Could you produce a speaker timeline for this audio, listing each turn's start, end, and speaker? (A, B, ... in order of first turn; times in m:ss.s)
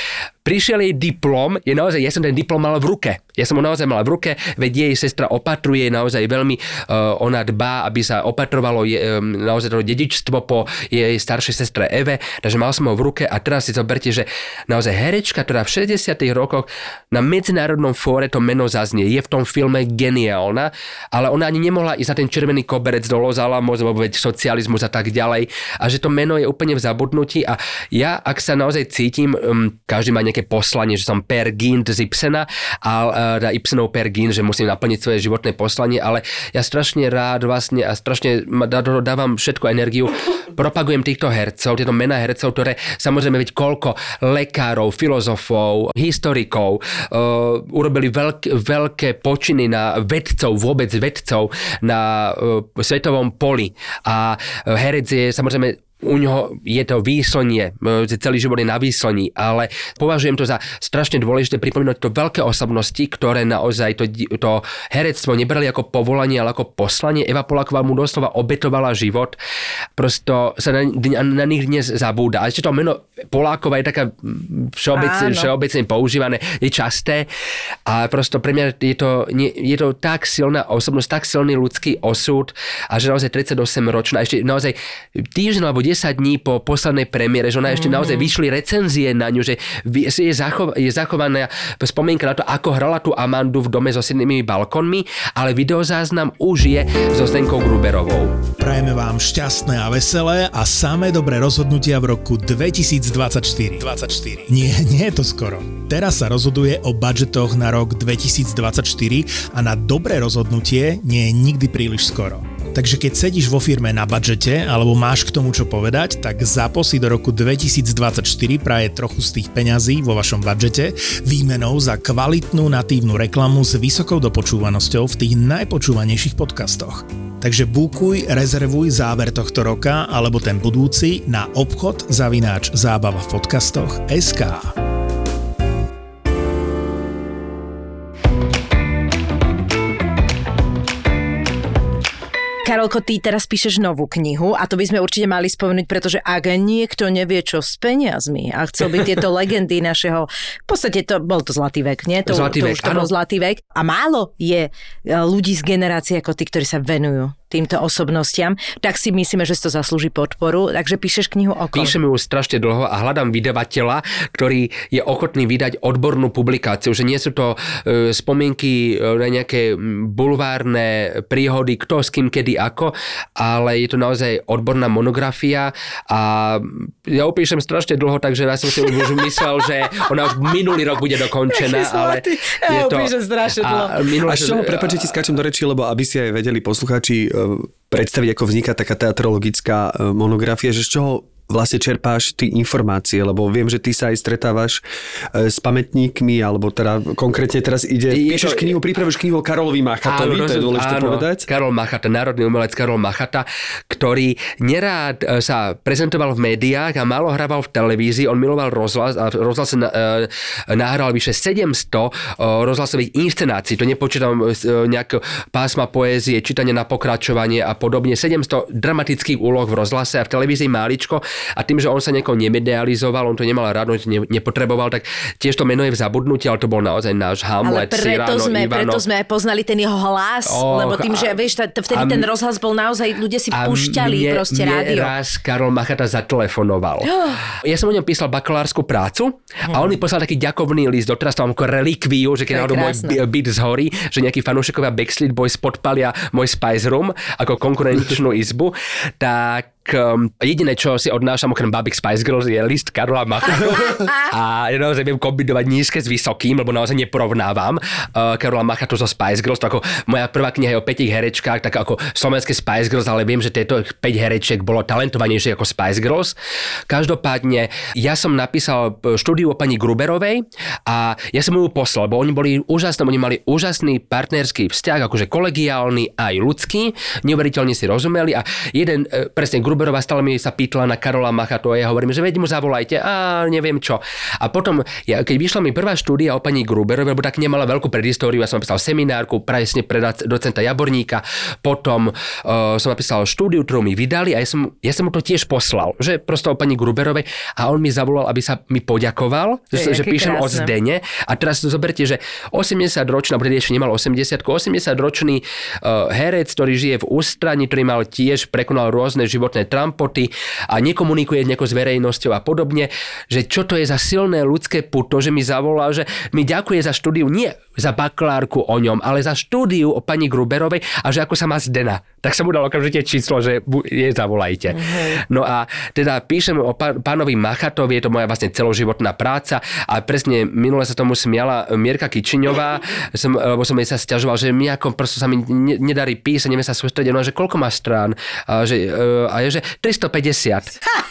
0:00.4-1:09.4 A
1:10.0-1:17.3 A
1:14.9-1:15.5 B
1:17.9-1:38.4 A
1:27.7-1:28.3 B
1:38.6-2:14.7 C
2:22.6-2:41.9 B
2:32.2-2:33.1 A
2:41.7-3:05.1 A
3:01.5-3:04.0 B
3:04.2-3:14.8 D
3:15.3-3:21.4 D
3:18.1-3:18.7 A
3:20.1-3:49.0 A
3:47.6-3:55.1 B
3:50.4-3:51.3 A
3:51.9-3:52.2 A
3:53.5-4:26.4 A
3:57.1-3:57.4 B
4:02.5-4:03.2 B
4:26.9-5:40.8 A
4:59.7-5:00.7 B
5:24.7-5:25.2 B